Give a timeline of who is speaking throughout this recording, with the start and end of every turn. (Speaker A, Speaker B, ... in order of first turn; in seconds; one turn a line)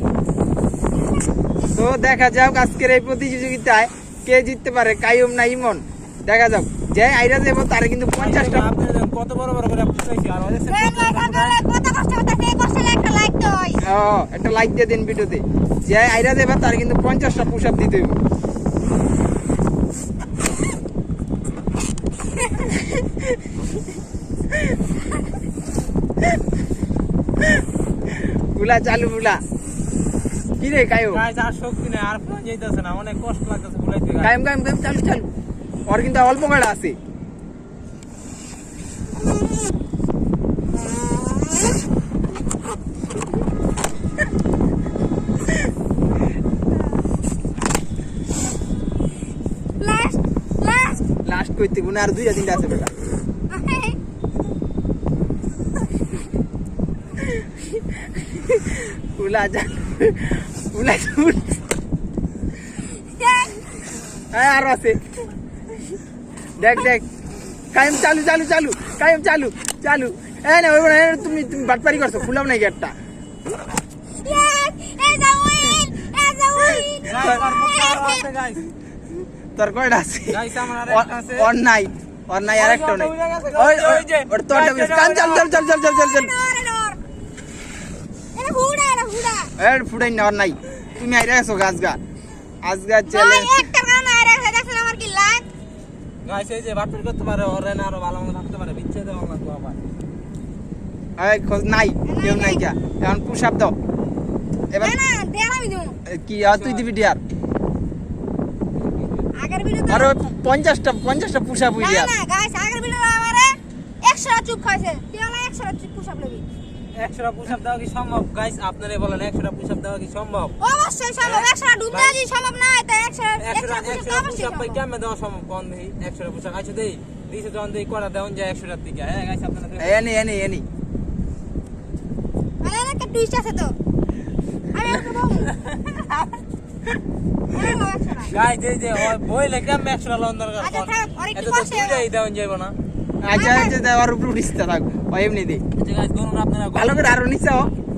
Speaker A: 1.7-8.7
Speaker B: 8.2-11.6
Speaker C: 10.7-13.8
Speaker A: 13.8-18.2
Speaker A: 28.5-29.4
Speaker A: 30.6-31.2
Speaker B: 31.1-34.3
Speaker A: 34.2-35.3
Speaker A: 35.9-37.0
Speaker C: 49.8-51.0
Speaker A: 51.2-52.9
Speaker C: 53.5-54.0
Speaker A: 58.2-61.6
Speaker C: 62.9-63.8
Speaker A: 64.3-65.0
Speaker A: 66.6-67.0
Speaker A: 67.7-72.9
Speaker C: 74.2-78.3
Speaker B: 77.1-78.7
Speaker A: 79.6-86.3
Speaker B: 80.3-81.5
Speaker B: 82.5-85.5
Speaker C: 85.4-87.0
Speaker C: 88.3-89.5
Speaker A: 89.6-92.0
Speaker A: 92.6-93.7
Speaker C: 93.1-95.5
Speaker B: 96.2-99.8
Speaker A: 101.2-103.8
Speaker C: 102.1-102.6
Speaker A: 104.7-105.0
Speaker C: 104.8-106.0
Speaker A: 106.1-107.2
Speaker B: 106.4-106.9
Speaker B: 108.8-109.3
Speaker C: 109.3-110.3
Speaker A: 109.9-112.1
Speaker C: 111.8-116.5
Speaker B: 117.0-120.6
Speaker C: 120.6-124.8
Speaker B: 121.2-122.2
Speaker B: 123.4-130.1
Speaker A: 129.8-130.7
Speaker C: 132.6-133.8
Speaker C: 134.7-135.6
Speaker B: 135.6-136.3
Speaker C: 137.5-138.4
Speaker B: 138.3-142.8
Speaker C: 140.6-142.1
Speaker A: 143.2-145.6
Speaker C: 143.3-143.8
Speaker B: 145.8-147.2
Speaker A: 146.7-147.7